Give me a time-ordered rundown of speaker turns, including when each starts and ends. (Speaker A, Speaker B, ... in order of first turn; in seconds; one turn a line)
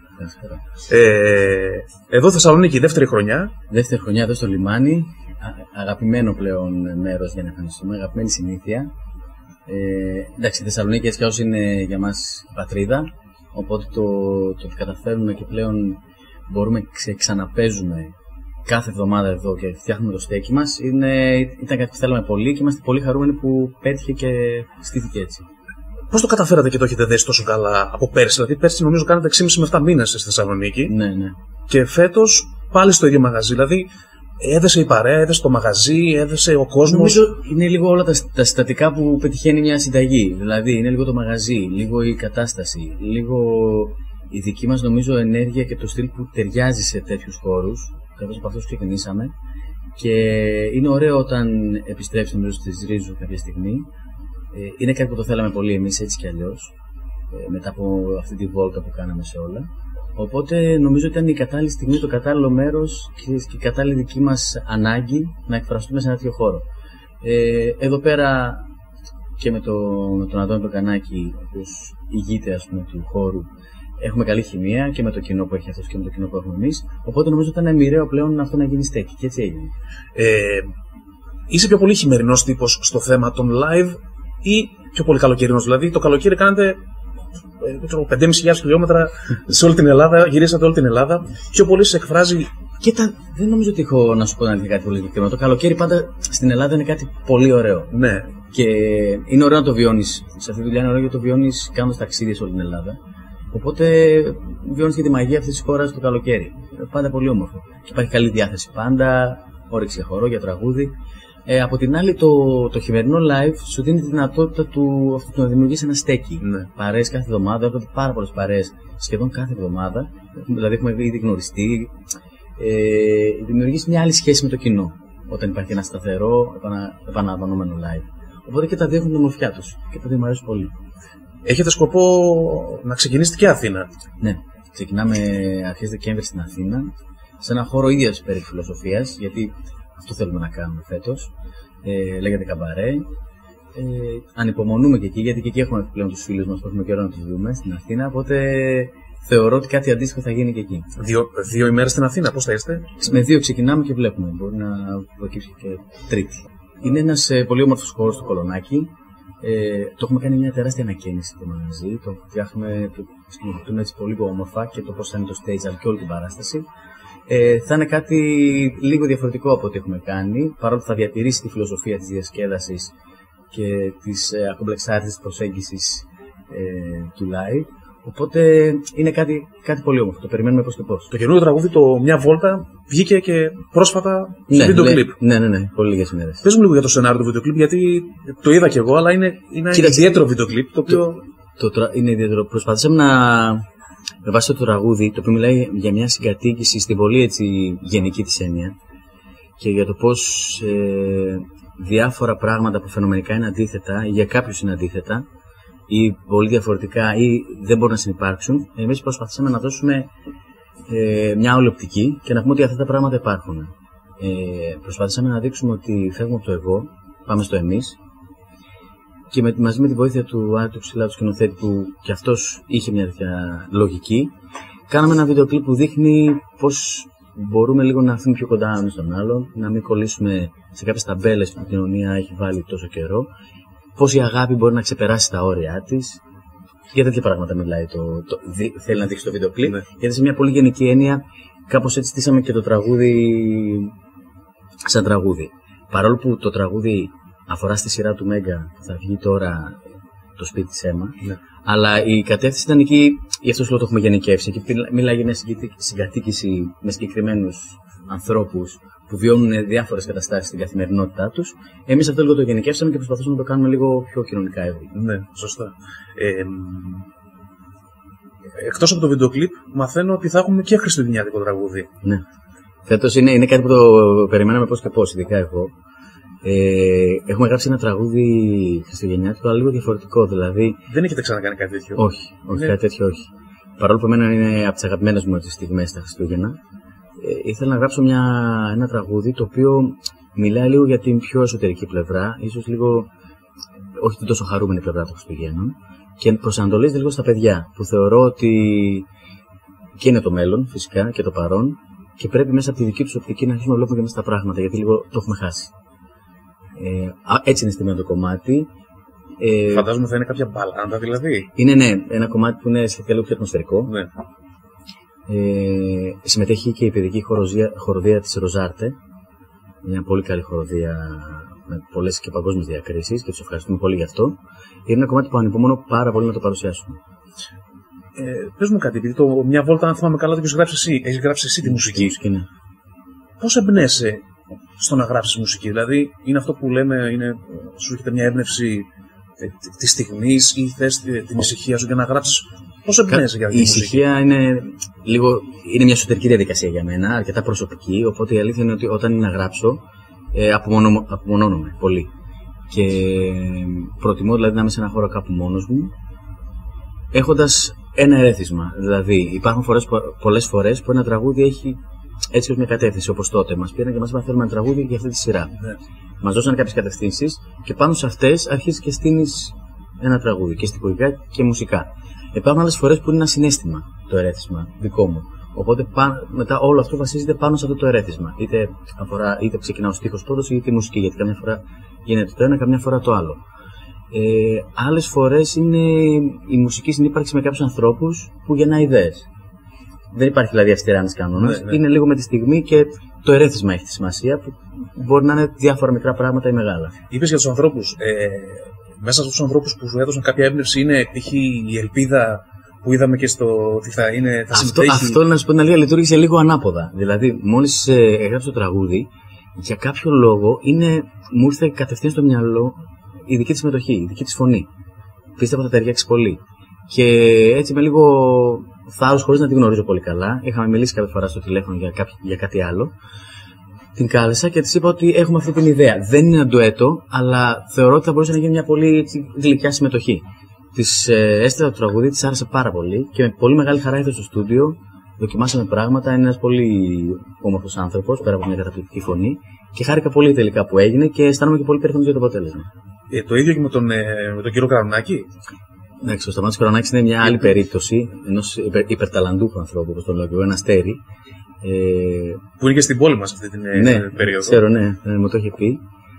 Speaker A: 0.2-0.6
Speaker B: 0.9-3.5
Speaker A: 3.7-8.9
Speaker A: 9.7-18.1
Speaker A: 18.7-25.5
Speaker B: 26.1-30.9
Speaker A: 30.9-31.4
Speaker B: 31.7-33.9
Speaker B: 34.4-37.2
Speaker A: 36.8-49.3
Speaker A: 50.0-53.9
Speaker A: 54.5-56.7
Speaker A: 57.3-66.7
Speaker A: 67.2-68.7
Speaker A: 69.4-73.5
Speaker A: 74.0-79.7
Speaker B: 80.2-80.7
Speaker B: 81.5-86.8
Speaker B: 87.6-92.5
Speaker A: 92.8-103.0
Speaker B: 97.9-98.3
Speaker A: 103.5-110.9
Speaker A: 111.5-122.0
Speaker A: 122.6-130.7
Speaker B: 131.4-133.9
Speaker A: 134.2-141.3
Speaker A: 141.8-143.1
Speaker A: 143.8-150.9
Speaker B: 151.0-153.1
Speaker A: 153.0-158.9
Speaker A: 159.4-166.7
Speaker A: 167.3-172.9
Speaker A: 173.5-181.1
Speaker B: 181.1-185.2
Speaker A: 184.5-186.4
Speaker B: 186.4-191.2
Speaker A: 189.7-190.2
Speaker A: 191.6-193.7
Speaker A: 194.2-198.8
Speaker A: 199.6-205.3
Speaker A: 205.9-210.1
Speaker A: 210.9-218.0
Speaker A: 219.3-224.3
Speaker A: 224.9-233.3
Speaker A: 234.0-236.2
Speaker A: 236.9-243.9
Speaker A: 244.8-249.8
Speaker A: 250.4-265.0
Speaker B: 264.9-267.1
Speaker B: 268.5-271.9
Speaker A: 272.9-275.7
Speaker A: 276.4-280.8
Speaker B: 280.9-282.8
Speaker A: 282.0-286.6
Speaker A: 287.2-293.1
Speaker A: 294.0-299.1
Speaker A: 300.0-305.7
Speaker A: 306.8-308.7
Speaker A: 309.4-309.9
Speaker B: 309.7-311.5
Speaker A: 311.6-313.9
Speaker A: 315.3-319.0
Speaker A: 319.8-327.0
Speaker B: 328.1-332.1
Speaker A: 331.6-332.5
Speaker B: 333.4-334.2
Speaker B: 334.8-338.9
Speaker B: 339.4-344.0
Speaker A: 343.1-352.1
Speaker A: 352.7-355.9
Speaker A: 357.1-361.8
Speaker A: 362.3-365.7
Speaker A: 366.2-383.4
Speaker A: 384.1-389.3
Speaker A: 390.1-397.0
Speaker B: 391.4-391.8
Speaker B: 397.1-405.2
Speaker A: 404.5-414.7
Speaker A: 415.4-422.9
Speaker A: 424.0-430.2
Speaker A: 430.8-442.7
Speaker B: 443.1-445.3
Speaker A: 446.0-451.0
Speaker A: 451.6-452.4
Speaker B: 452.6-454.6
Speaker A: 453.7-455.8